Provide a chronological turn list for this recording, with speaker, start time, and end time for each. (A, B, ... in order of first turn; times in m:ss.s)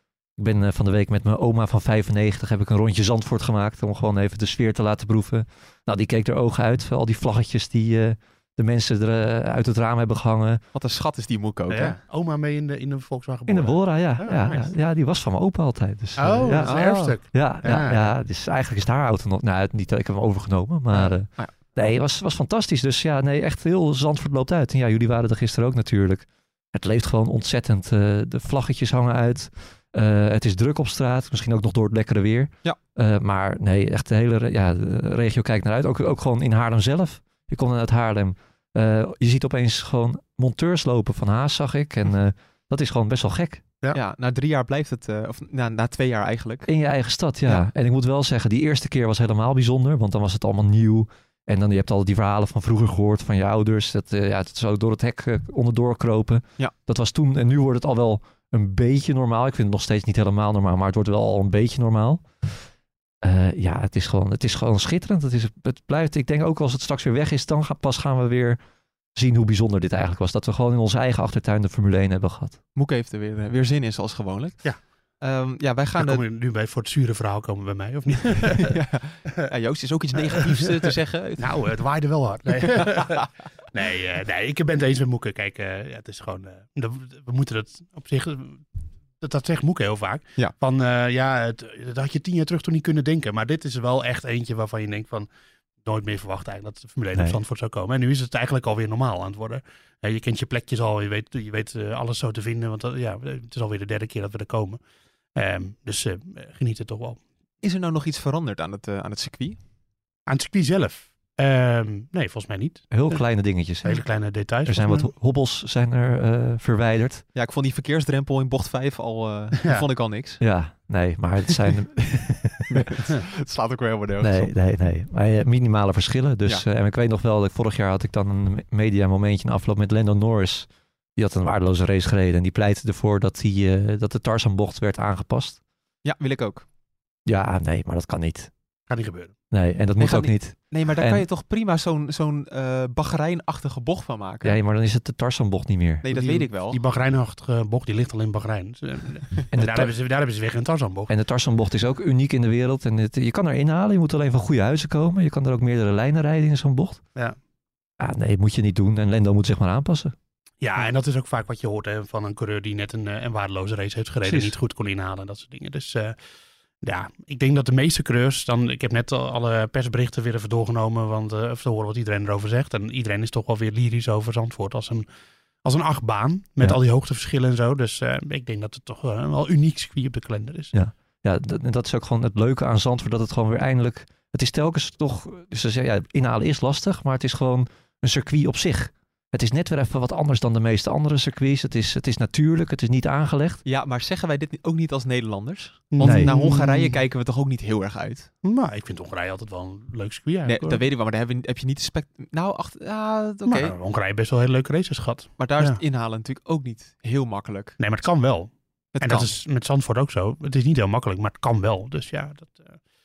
0:00.4-0:10.6 A
0:10.7-0:12.0 B
0:11.7-0:14.7 C
0:13.5-0:43.6 A
0:16.2-0:18.1 C
0:16.6-0:17.2 B
0:43.9-0:46.7 B
0:46.7-1:02.2 A
1:03.2-1:08.6 A
1:09.2-1:12.6 A
1:12.8-1:14.7 B
1:15.2-1:16.2 B
1:16.0-1:18.8 C
1:18.4-1:21.7 B
1:20.2-1:28.6 C
1:22.6-1:23.3 B
1:29.2-1:35.3 C
1:35.8-1:44.8 C
1:45.4-1:47.2 C
1:47.6-1:49.6 B
1:50.3-1:53.2 C
1:52.9-1:54.0 A
1:53.8-1:55.1 C
1:54.6-1:57.2 A
1:57.4-2:00.4 B
1:59.6-1:59.8 C
2:00.4-2:02.8 A
2:02.7-2:04.5 B
2:04.2-2:15.6 A
2:16.0-2:16.7 B
2:17.3-2:18.5 A
2:18.9-2:19.4 C
2:19.5-2:21.2 A
2:20.0-2:24.6 B
2:24.4-2:26.1 A
2:26.0-2:26.8 B
2:26.1-2:31.1 C
2:29.5-2:29.9 A
2:31.1-2:37.0 A
2:38.0-2:40.1 A
2:40.6-2:46.2 C
2:44.2-2:44.5 A
2:46.8-2:55.1 C
2:55.6-3:00.7 C
3:00.7-3:13.6 A
3:13.6-3:18.3 B
3:15.9-3:17.0 C
3:16.0-3:16.3 A
3:18.4-3:20.8 C
3:20.4-3:23.8 B
3:23.5-3:25.8 C
3:25.4-3:27.8 B
3:27.8-3:32.8 C
3:28.9-3:29.4 B